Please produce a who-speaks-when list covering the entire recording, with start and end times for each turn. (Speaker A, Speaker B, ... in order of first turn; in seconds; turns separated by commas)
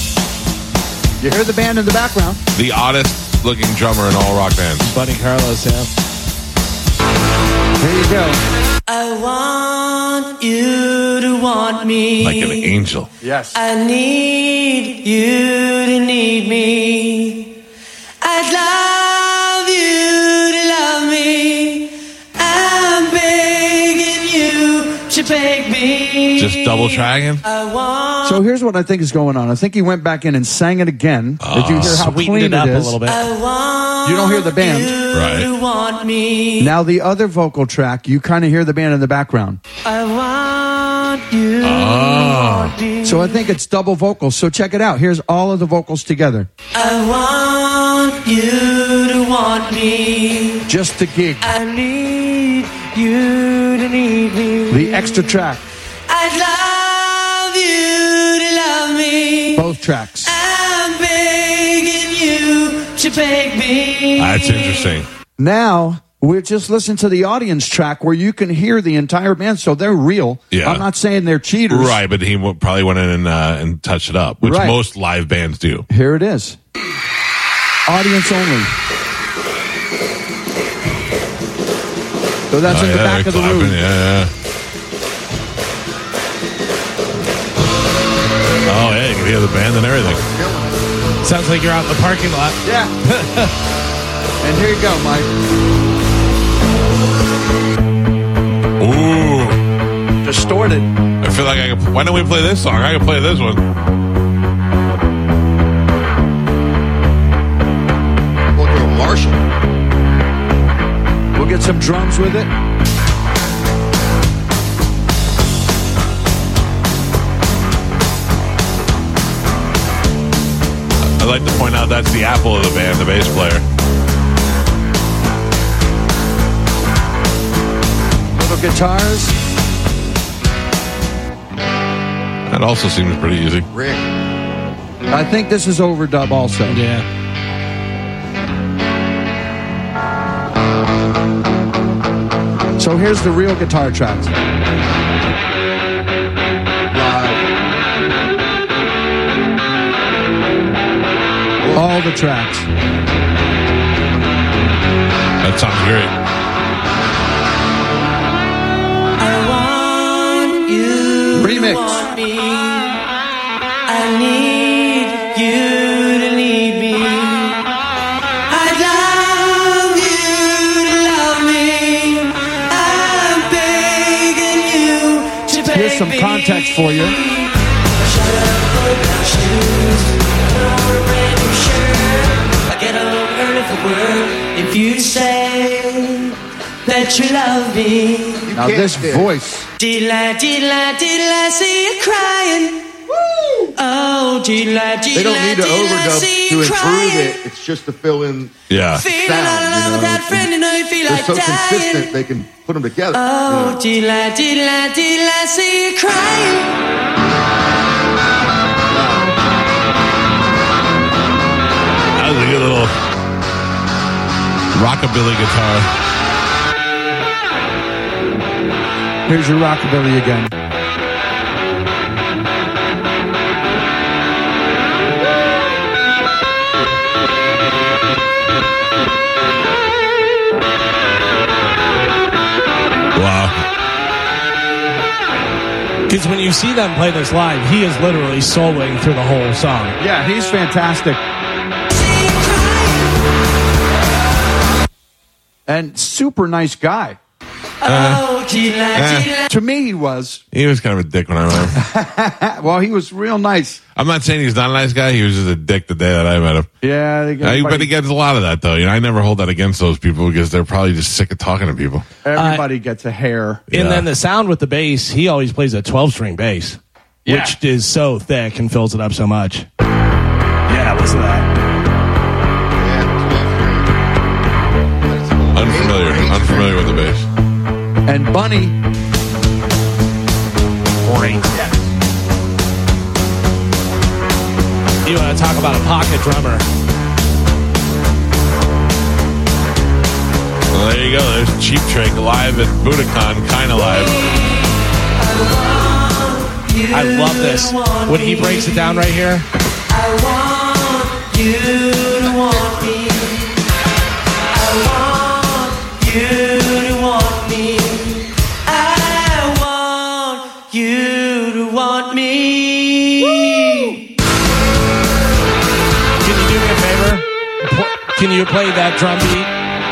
Speaker A: 1.2-2.4, Speaker B: 2.5-5.0, Speaker C: 4.8-5.9, Speaker A: 7.8-8.4, Speaker D: 8.9-12.7, Speaker B: 12.2-13.1, Speaker A: 13.2-13.6, Speaker D: 13.6-17.6, Speaker D: 18.2-28.4, Speaker B: 26.4-27.4, Speaker A: 28.2-33.0, Speaker B: 31.4-32.1, Speaker C: 31.8-33.2, Speaker D: 33.0-36.8, Speaker A: 34.0-35.0, Speaker B: 35.1-35.5, Speaker A: 36.6-39.6, Speaker D: 39.8-43.5, Speaker B: 41.6-42.8, Speaker A: 43.0-46.5, Speaker D: 46.8-50.7, Speaker A: 50.7-51.5, Speaker D: 51.4-55.4, Speaker A: 54.7-55.6, Speaker D: 56.1-64.9, Speaker A: 59.5-60.4, Speaker B: 64.2-65.1, Speaker A: 65.4-72.0, Speaker B: 70.5-70.8, Speaker B: 71.7-75.9, Speaker A: 74.4-74.8, Speaker A: 75.9-76.6, Speaker A: 77.9-78.7, Speaker A: 82.5-83.8, Speaker B: 82.7-84.3, Speaker B: 88.7-90.2, Speaker E: 90.0-90.9, Speaker C: 91.2-93.5, Speaker A: 92.6-92.9, Speaker A: 94.4-95.3, Speaker B: 98.8-99.6, Speaker A: 100.2-100.9, Speaker B: 101.2-103.7, Speaker E: 108.5-109.4, Speaker A: 111.3-112.5, Speaker B: 121.2-123.7, Speaker A: 128.4-129.3, Speaker B: 132.5-133.7, Speaker E: 133.7-134.1, Speaker A: 135.1-136.8, Speaker C: 136.7-137.1, Speaker A: 142.8-144.3, Speaker E: 146.9-147.4, Speaker E: 151.6-151.9, Speaker A: 151.7-152.7, Speaker B: 155.4-156.2, Speaker D: 159.2-163.0, Speaker A: 161.3-162.1, Speaker D: 163.9-167.7, Speaker D: 168.5-188.5, Speaker A: 175.7-177.2, Speaker E: 188.4-189.3, Speaker A: 188.6-189.7, Speaker D: 189.8-193.0, Speaker A: 193.3-193.6, Speaker D: 193.8-197.5, Speaker E: 195.1-200.5, Speaker B: 198.7-199.1, Speaker D: 198.9-202.2, Speaker E: 201.0-203.8, Speaker D: 203.1-206.8, Speaker E: 208.9-209.3, Speaker B: 212.2-212.9, Speaker B: 214.7-215.9, Speaker A: 219.3-220.5, Speaker B: 233.2-233.6, Speaker C: 236.1-240.0, Speaker A: 240.0-241.2, Speaker D: 241.9-243.2, Speaker A: 245.7-247.2, Speaker D: 247.8-249.5, Speaker B: 247.8-248.3, Speaker B: 248.9-249.3, Speaker A: 249.5-250.4, Speaker B: 250.5-251.8, Speaker A: 251.7-253.8, Speaker B: 254.0-256.7, Speaker A: 256.8-257.9, Speaker B: 257.4-262.1, Speaker A: 262.2-263.6, Speaker C: 262.4-262.6, Speaker B: 263.7-264.1, Speaker C: 263.7-269.7, Speaker A: 267.2-267.6, Speaker C: 270.7-271.5, Speaker E: 272.8-274.0, Speaker E: 275.0-276.9, Speaker B: 275.5-277.3, Speaker A: 278.1-278.8, Speaker C: 281.1-281.5, Speaker C: 285.1-286.6, Speaker B: 290.7-294.3, Speaker D: 294.0-299.1, Speaker C: 296.9-299.5, Speaker D: 299.9-303.6, Speaker D: 304.5-314.1, Speaker C: 316.2-319.5